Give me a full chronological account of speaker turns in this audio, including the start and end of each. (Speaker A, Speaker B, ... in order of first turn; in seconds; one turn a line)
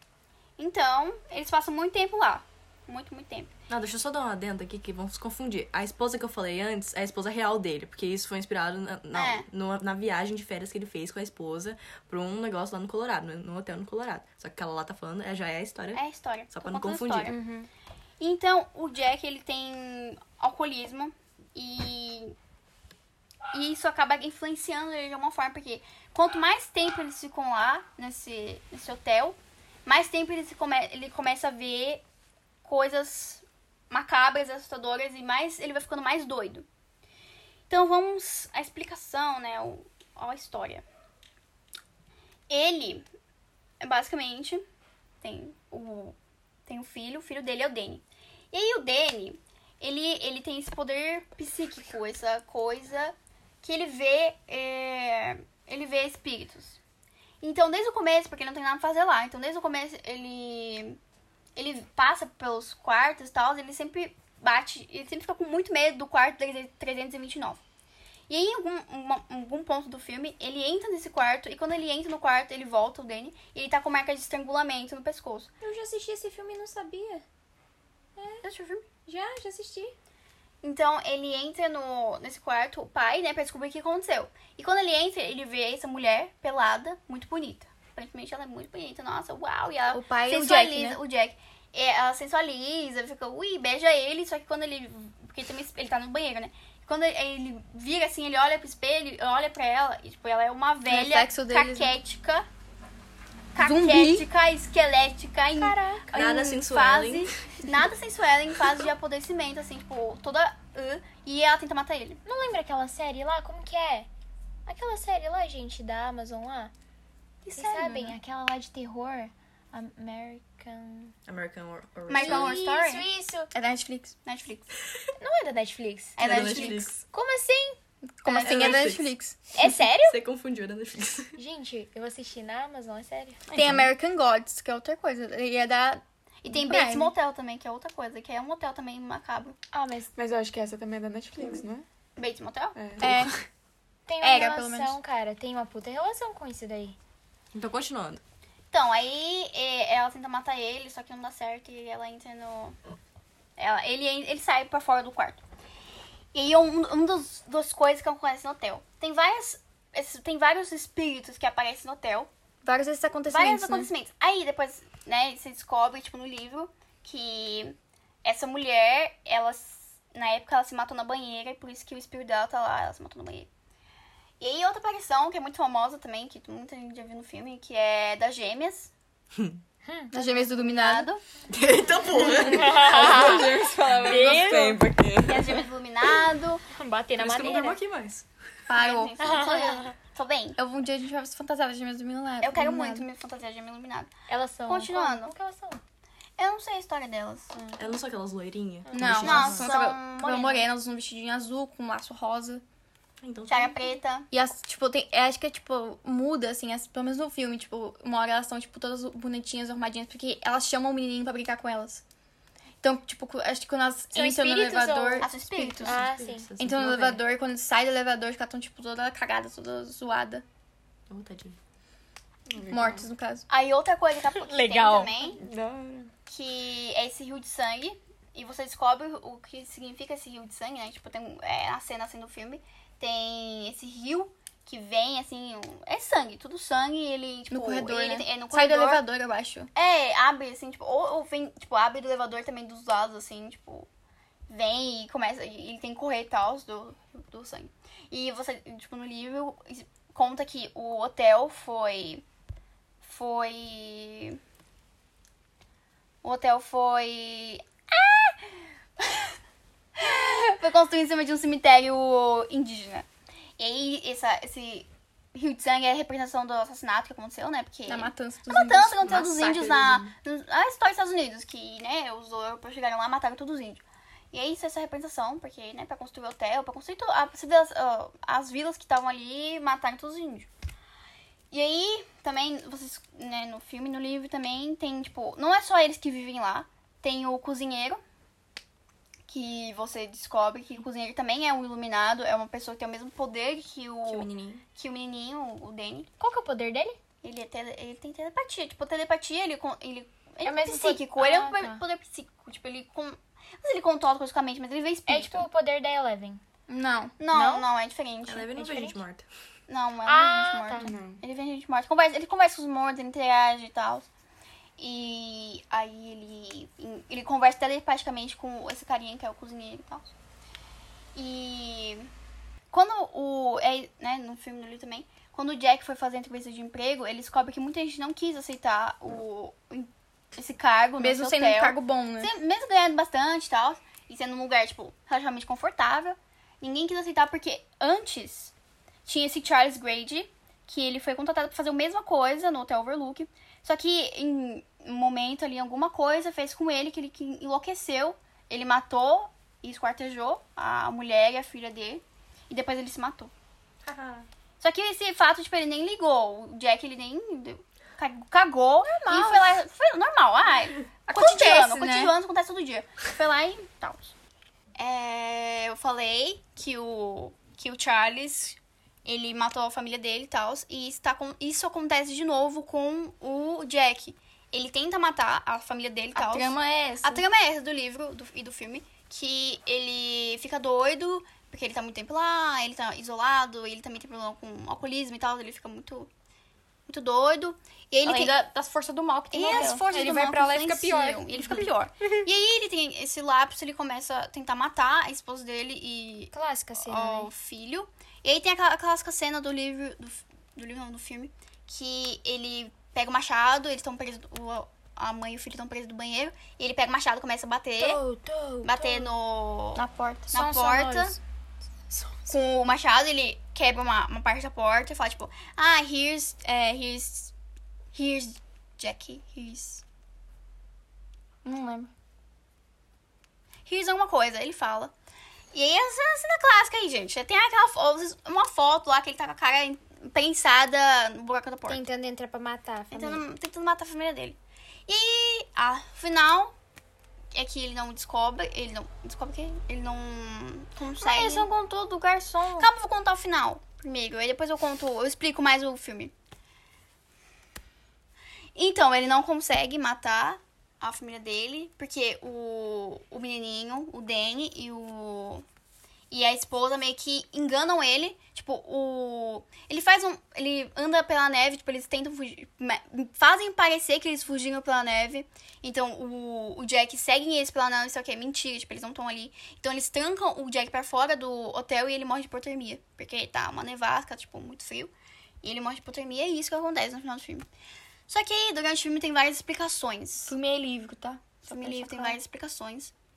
Speaker A: 0.6-3.5
Speaker B: 3.7-17.3
Speaker A: 9.1-9.5
Speaker A: 15.9-17.4
Speaker C: 17.3-17.7
Speaker A: 18.2-22.3
Speaker A: 23.5-32.0
Speaker A: 32.6-36.6
Speaker A: 37.7-40.8
Speaker A: 42.5-43.0
Speaker A: 43.8-44.6
Speaker A: 45.2-46.1
Speaker A: 46.7-56.8
Speaker A: 57.4-61.0
Speaker A: 61.5-67.6
Speaker A: 68.3-75.5
Speaker C: 75.6-77.2
Speaker C: 78.2-78.4
Speaker A: 78.4-78.9
Speaker C: 79.0-79.9
Speaker A: 80.6-102.5
Speaker D: 89.9-91.0
Speaker D: 100.9-101.9
Speaker A: 103.5-112.2
Speaker D: 103.6-104.2
Speaker C: 105.6-106.1
Speaker B: 106.1-107.6
Speaker C: 112.2-114.1
Speaker C: 114.7-116.7
Speaker A: 117.4-118.2
Speaker C: 117.5-121.1
Speaker B: 121.3-122.5
Speaker A: 122.1-123.1
Speaker C: 122.1-123.5
Speaker D: 123.5-124.1
Speaker A: 124.2-124.7
Speaker C: 125.2-127.8
Speaker A: 126.2-126.9
Speaker B: 126.2-127.0
Speaker D: 128.2-129.4
Speaker C: 128.3-128.7
Speaker B: 128.3-131.3
Speaker C: 129.5-130.2
Speaker C: 131.3-133.4
Speaker B: 133.5-133.9
Speaker D: 133.5-137.1
Speaker A: 136.4-139.6
Speaker C: 139.7-140.1
Speaker E: 140.1-141.8
Speaker A: 142.2-142.8
Speaker E: 142.8-143.1
Speaker D: 143.0-143.4
Speaker C: 144.1-146.9
Speaker D: 144.2-144.9
Speaker B: 147.5-148.2
Speaker A: 148.7-152.8
Speaker A: 153.6-155.4
Speaker A: 156.3-162.3
Speaker D: 162.6-163.9
Speaker A: 163.3-173.5
Speaker A: 174.4-178.9
Speaker C: 179.8-180.1
Speaker D: 180.1-181.1
Speaker A: 180.2-181.2
Speaker B: 181.5-185.4
Speaker C: 182.3-184.8
Speaker E: 182.6-185.6
Speaker A: 185.2-186.6
Speaker C: 186.7-187.8
Speaker B: 187.2-188.3
Speaker D: 188.7-189.1
Speaker A: 188.7-190.6
Speaker C: 189.2-189.9
Speaker D: 190.6-193.1
Speaker A: 192.4-194.1
Speaker C: 194.3-195.8
Speaker A: 194.7-195.3
Speaker A: 196.4-197.6
Speaker B: 197.8-199.7
Speaker D: 198.9-202.6
Speaker A: 199.2-200.7
Speaker B: 203.2-203.9
Speaker A: 203.5-204.3
Speaker D: 204.3-212.0
Speaker D: 212.8-216.0
Speaker C: 214.1-215.3
Speaker A: 215.2-216.0
Speaker C: 215.8-216.5
Speaker B: 216.0-217.2
Speaker D: 216.6-220.4
Speaker B: 221.1-221.6
Speaker E: 222.5-223.1
Speaker D: 222.7-223.4
Speaker A: 223.5-225.4
Speaker C: 224.3-225.2
Speaker E: 225.3-226.1
Speaker A: 226.3-239.0
Speaker D: 237.5-239.7
Speaker A: 239.7-243.9
Speaker A: 244.5-252.2
Speaker A: 253.0-254.4
Speaker A: 256.2-258.4
Speaker A: 259.9-263.1
Speaker A: 263.6-280.5
Speaker D: 267.9-269.9
Speaker B: 269.7-270.1
Speaker A: 281.5-288.0
Speaker A: 289.3-296.1
Speaker B: 294.1-294.6
Speaker C: 296.2-297.0
Speaker A: 297.2-305.4
Speaker D: 300.4-301.8
Speaker C: 305.1-306.4
Speaker D: 306.7-307.1
Speaker A: 307.2-308.5
Speaker C: 307.3-307.6
Speaker B: 308.2-309.3
Speaker C: 308.6-309.0
Speaker A: 309.7-314.1
Speaker C: 310.1-310.9
Speaker E: 310.8-311.2
Speaker A: 314.8-320.1
Speaker A: 321.1-322.1
Speaker A: 322.7-338.5
Speaker D: 331.0-332.3
Speaker A: 339.1-353.3
Speaker B: 353.8-354.3
Speaker A: 354.6-364.1
Speaker D: 358.9-359.5
Speaker D: 361.1-362.1
Speaker A: 364.8-386.1
Speaker D: 376.1-377.2
Speaker A: 386.9-388.3
Speaker D: 388.0-389.9
Speaker A: 389.3-408.0
Speaker C: 389.5-391.7
Speaker C: 396.3-397.3
Speaker C: 407.8-409.1
Speaker A: 408.6-411.2
Speaker D: 409.8-411.2
Speaker A: 412.3-417.3
Speaker A: 417.9-419.8
Speaker D: 421.4-421.9
Speaker A: 423.6-424.9
Speaker A: 425.5-431.8
Speaker C: 431.7-433.2
Speaker A: 432.9-434.4
Speaker A: 434.9-436.5
Speaker A: 437.3-441.5
Speaker D: 441.0-442.7
Speaker A: 442.6-446.1
Speaker A: 448.5-455.4
Speaker A: 456.1-477.4
Speaker A: 478.1-480.3
Speaker D: 480.2-482.2
Speaker A: 481.4-482.9